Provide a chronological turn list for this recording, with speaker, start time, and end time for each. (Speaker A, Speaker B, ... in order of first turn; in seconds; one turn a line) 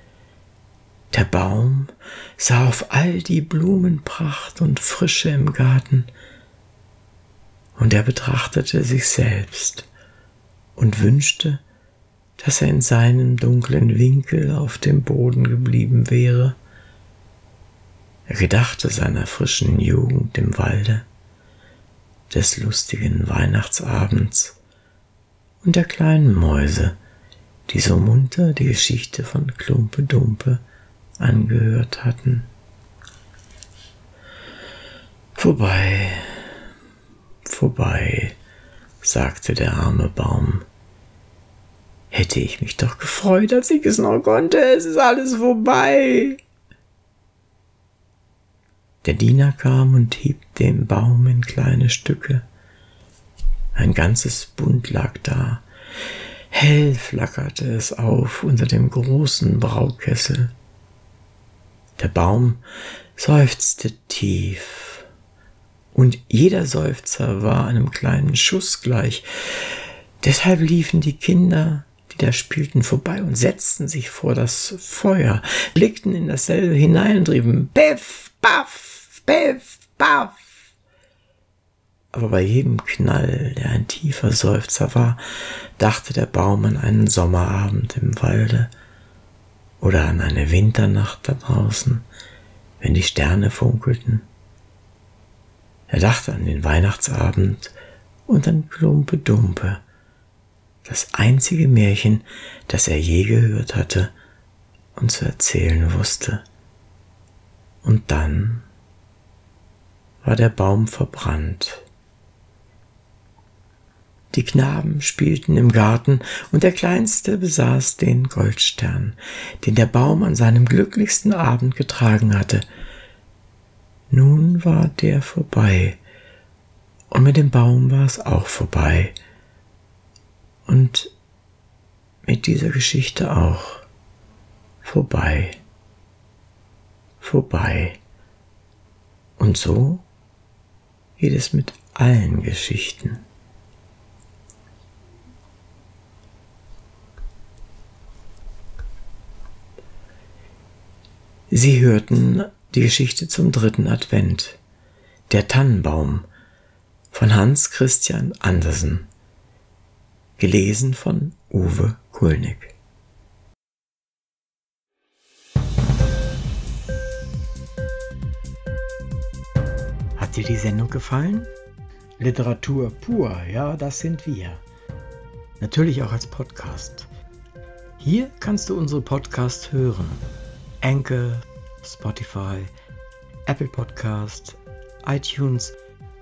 Speaker A: 1.1-6.1
Speaker A: 7.8-9.9
Speaker A: 10.8-11.6
Speaker A: 12.4-16.6
Speaker A: 18.3-21.1
Speaker A: 22.3-24.6
Speaker A: 25.6-27.0
Speaker A: 27.7-30.6
Speaker A: 31.2-32.5
Speaker A: 35.4-36.4
Speaker A: 37.5-38.4
Speaker A: 39.0-40.6
Speaker A: 42.1-46.4
Speaker A: 49.0-52.4
Speaker A: 53.8-55.6
Speaker A: 56.5-60.5
Speaker A: 62.0-62.6
Speaker A: 63.2-65.0
Speaker A: 65.9-80.4
Speaker A: 82.1-85.2
Speaker A: 85.8-88.7
Speaker A: 89.8-92.1
Speaker A: 92.8-94.3
Speaker A: 95.9-97.7
Speaker A: 98.3-99.8
Speaker A: 100.8-104.1
Speaker A: 105.0-106.4
Speaker A: 107.8-108.7
Speaker A: 110.2-111.9
Speaker A: 114.3-122.6
Speaker A: 124.1-126.0
Speaker A: 127.1-129.2
Speaker A: 130.7-131.1
Speaker A: 132.2-133.8
Speaker A: 134.8-135.6
Speaker A: 137.2-138.0
Speaker A: 139.4-140.1
Speaker A: 141.2-143.2
Speaker A: 151.5-154.6
Speaker A: 155.3-156.3
Speaker A: 157.1-159.1
Speaker A: 160.4-162.8
Speaker A: 170.2-171.5
Speaker A: 172.2-174.7
Speaker A: 175.6-177.1
Speaker A: 178.0-180.3
Speaker A: 180.8-182.7
Speaker A: 183.5-185.8